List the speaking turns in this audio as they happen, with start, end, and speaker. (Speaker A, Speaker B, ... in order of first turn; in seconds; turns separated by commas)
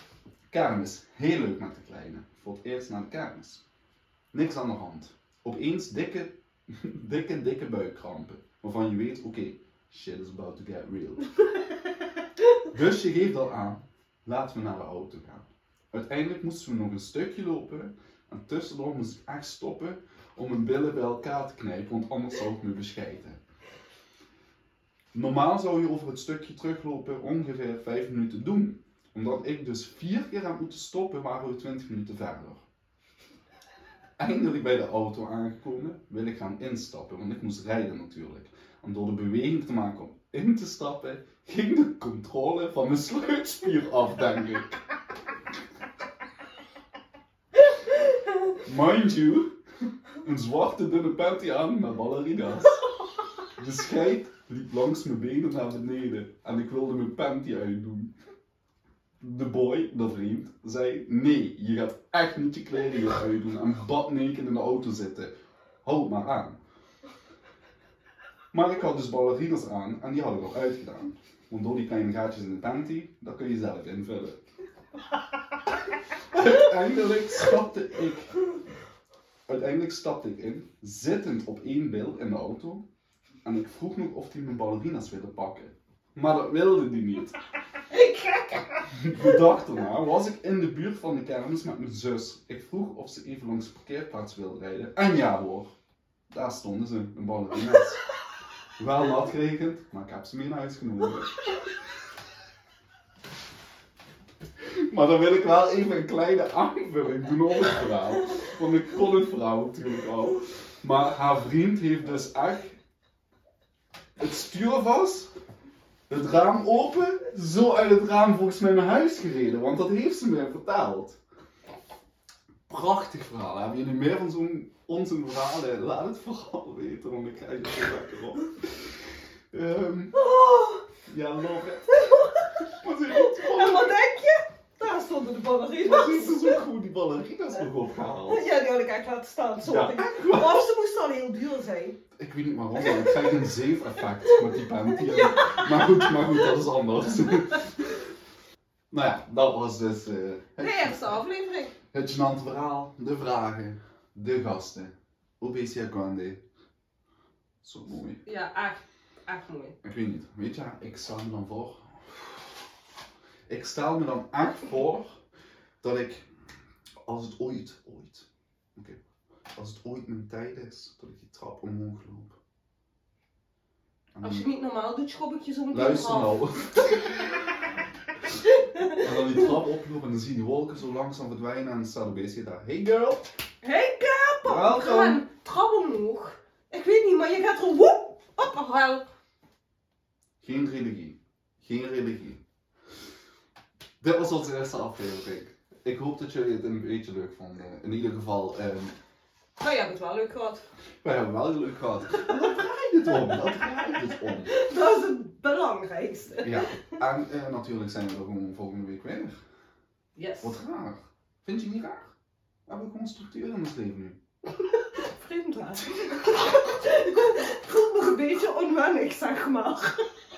Speaker A: 0.5-3.6, Speaker A: 4.3-11.3, Speaker A: 12.7-23.4, Speaker A: 25.1-32.6, Speaker A: 34.2-44.8, Speaker A: 48.6-49.6, Speaker A: 50.2-52.8, Speaker A: 53.5-58.1, Speaker A: 59.2-66.6, Speaker A: 68.5-74.4, Speaker A: 76.3-78.3, Speaker A: 79.5-82.8, Speaker A: 83.4-87.3, Speaker B: 87.9-89.2, Speaker A: 88.9-95.7, Speaker A: 96.3-98.0, Speaker A: 98.8-101.5, Speaker A: 104.6-112.8, Speaker A: 114.2-115.3, Speaker A: 116.1-121.2, Speaker A: 122.7-130.1, Speaker B: 130.1-130.8, Speaker A: 131.1-132.0, Speaker B: 131.9-132.6, Speaker A: 132.6-133.9, Speaker B: 133.1-136.6, Speaker A: 135.8-138.4, Speaker B: 138.3-142.0, Speaker A: 139.6-140.7, Speaker A: 142.2-147.8, Speaker B: 142.8-143.2, Speaker B: 144.2-146.4, Speaker A: 148.9-151.1, Speaker B: 150.6-151.7, Speaker A: 151.9-156.4, Speaker A: 157.6-158.2, Speaker B: 158.2-159.8, Speaker A: 159.8-162.6, Speaker A: 163.5-165.1, Speaker A: 165.8-166.2, Speaker A: 167.0-169.0, Speaker A: 169.5-172.4, Speaker A: 174.1-174.4, Speaker B: 174.2-176.4, Speaker A: 175.7-177.5, Speaker B: 178.3-179.0, Speaker A: 179.0-183.3, Speaker B: 183.6-189.1, Speaker A: 184.4-185.2, Speaker A: 190.4-192.4, Speaker A: 194.0-198.9, Speaker B: 199.6-200.6, Speaker A: 201.0-204.5, Speaker B: 204.3-207.0, Speaker A: 206.4-209.4, Speaker B: 210.2-210.6, Speaker A: 210.4-212.1, Speaker A: 212.7-214.2, Speaker B: 214.5-220.1